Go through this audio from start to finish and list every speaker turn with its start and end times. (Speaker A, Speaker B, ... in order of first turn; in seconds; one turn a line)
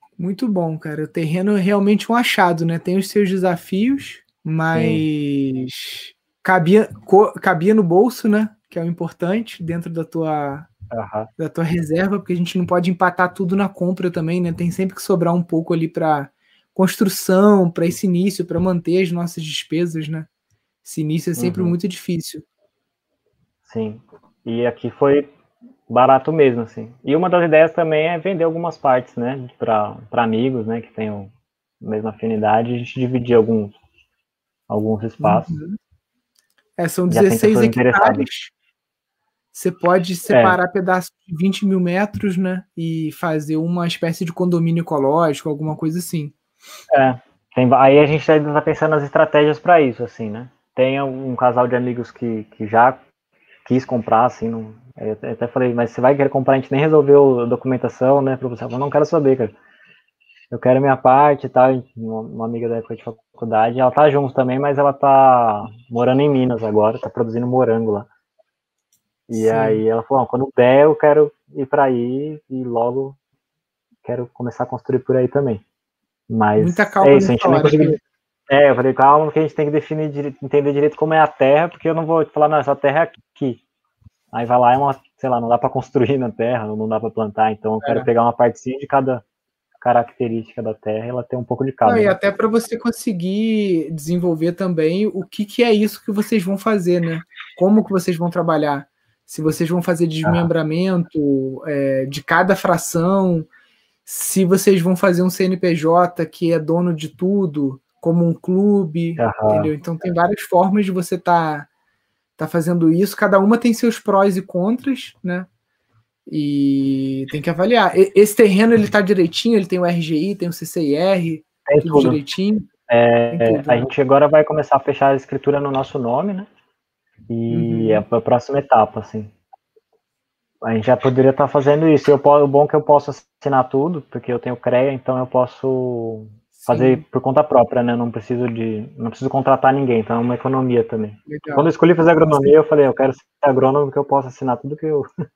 Speaker A: 0.2-10.7
Speaker B: 4.7-5.0
Speaker B: 10.9-11.3
Speaker A: 11.4-20.3
Speaker A: 20.8-22.4
Speaker B: 21.4-21.8
Speaker B: 23.6-25.3
Speaker B: 25.9-33.8
Speaker B: 34.7-35.5
Speaker A: 35.2-35.8
Speaker A: 36.8-38.5
Speaker B: 37.1-38.2
Speaker A: 39.5-46.3
Speaker B: 40.3-40.6
Speaker B: 46.9-53.0
Speaker B: 53.6-59.5
Speaker B: 60.5-68.1
Speaker B: 69.3-73.2
Speaker A: 69.3-69.8
Speaker B: 74.0-75.6
Speaker B: 76.3-83.6
Speaker A: 76.6-78.0
Speaker B: 84.3-89.2
Speaker A: 87.8-88.1
Speaker B: 89.8-92.2
Speaker A: 91.8-103.5
Speaker A: 104.0-111.7
Speaker B: 109.2-109.7
Speaker A: 112.4-115.5
Speaker A: 116.3-122.7
Speaker B: 121.7-122.2
Speaker B: 122.9-126.5
Speaker A: 123.3-123.9
Speaker B: 127.3-129.3
Speaker A: 127.5-128.0
Speaker B: 130.6-145.1
Speaker A: 136.6-137.0
Speaker A: 141.3-141.7
Speaker A: 142.2-142.5